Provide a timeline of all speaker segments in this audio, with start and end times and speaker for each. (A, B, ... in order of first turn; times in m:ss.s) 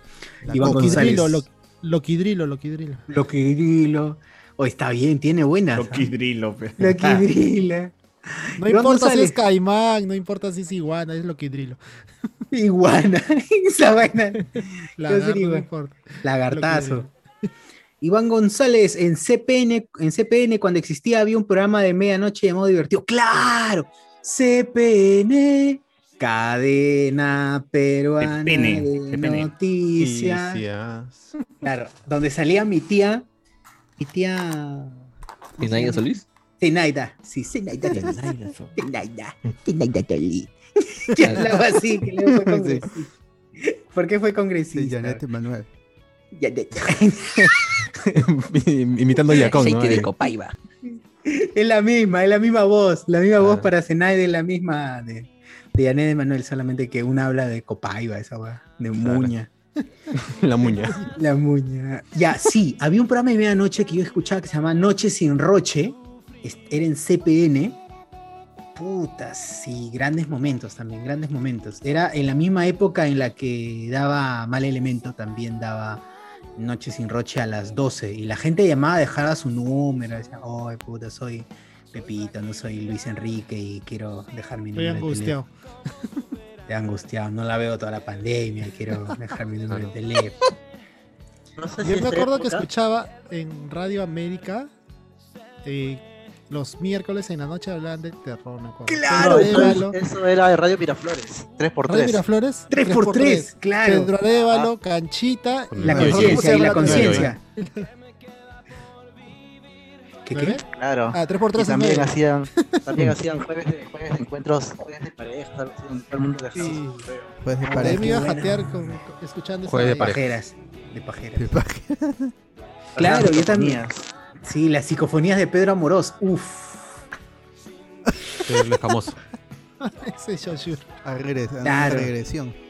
0:00.4-0:01.4 A
0:00.5-0:01.5 B
0:00.6-0:03.0 C
0:03.1-0:06.1 B
0:05.8-0:07.3 D
0:06.8-0:07.9 B
0:08.6-0:09.4 B
0:08.6-0:11.8 C
0:12.5-0:14.5 B
0:14.6-0:17.1 C
0:15.0-0:15.7 B
0:16.2-0:17.1 B
0:18.0-0:30.6 B
0:28.2-0:29.5 D
0:30.0-0:31.3 E
0:31.6-0:33.2 B
0:34.0-0:35.0 B
0:35.6-0:36.0 B
0:35.6-0:36.2 F
0:36.6-0:45.2 B
0:41.2-0:41.5 F
0:42.4-0:42.8 A
0:44.7-0:45.7 A
0:46.4-0:47.5 B
0:47.4-0:50.1 E
0:49.5-0:50.5 F
0:51.2-0:59.5 B
0:53.4-0:53.7 E
0:59.0-0:59.3 E
1:00.1-1:01.1 E
1:01.1-1:07.8 B
1:08.8-1:16.0 B
1:16.6-1:25.4 B
1:24.8-1:25.5 C
1:26.7-1:30.4 B
1:29.7-1:29.9 E
1:31.6-1:32.7 G
1:31.8-1:34.7 C
1:35.6-1:40.0 C
1:38.9-1:39.8 B
1:39.1-1:42.2 G
1:41.8-1:47.9 C
1:42.7-1:44.1 B
1:44.4-1:44.7 G
1:45.7-1:47.3 E
1:45.9-1:47.2 A
1:45.9-1:47.4 B
1:50.3-1:50.6 B
1:50.3-1:52.8 C
1:50.7-1:56.9 G
1:56.5-1:57.1 C
1:57.4-1:58.3 A
1:57.6-1:58.9 B
1:57.7-2:00.2 C
1:59.7-2:00.2 E
1:59.9-2:01.5 B
2:01.4-2:02.3 A
2:03.0-2:03.9 B
2:03.0-2:03.9 G
2:04.4-2:07.0 B
2:08.5-2:09.2 E
2:09.8-2:10.9 C
2:11.0-2:12.6 A
2:11.6-2:12.1 B